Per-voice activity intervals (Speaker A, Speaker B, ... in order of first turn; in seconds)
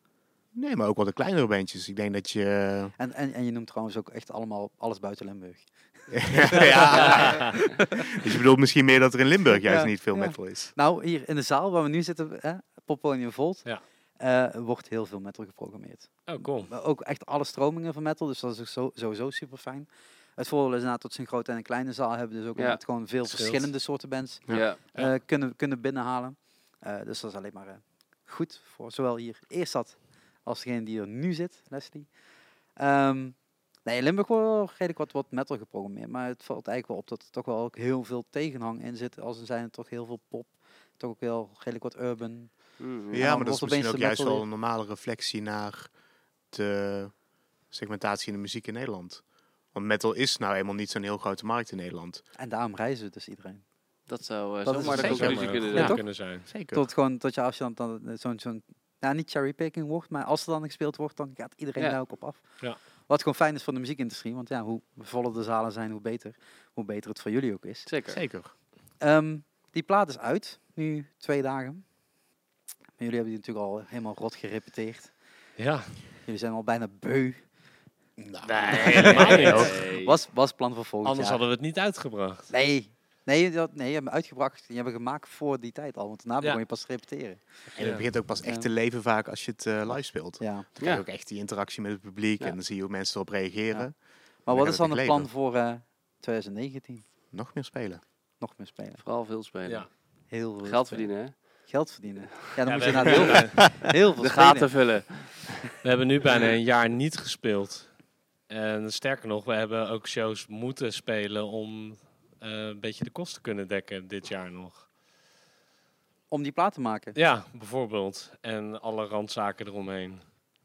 Speaker A: 0.5-2.9, 6.1-10.7, 43.1-45.9, 46.5-52.2, 55.0-56.9, 68.1-68.5, 78.3-79.8, 87.8-95.3, 97.3-98.0
Speaker B: 3.0-8.2, 9.6-32.1, 32.8-44.4, 52.4-53.6, 54.6-67.9, 69.0-71.9, 73.0-75.2, 76.2-77.5, 78.7-81.4, 82.5-87.7, 88.4-88.7, 90.4-90.7, 94.4-97.0, 98.4-99.0, 100.3-105.0, 116.3-117.2
Speaker C: 7.0-7.4, 16.3-16.7, 23.2-23.7, 54.9-56.5, 75.6-76.0, 78.4-79.8, 81.0-82.5, 87.8-88.1, 102.6-103.6, 105.8-114.9, 117.1-120.2
Speaker D: 22.6-22.8, 24.5-24.8, 42.8-43.3, 54.1-56.0, 67.8-68.2, 79.0-80.2, 90.8-91.0, 99.0-100.1, 100.6-101.7, 102.7-103.5, 104.2-105.6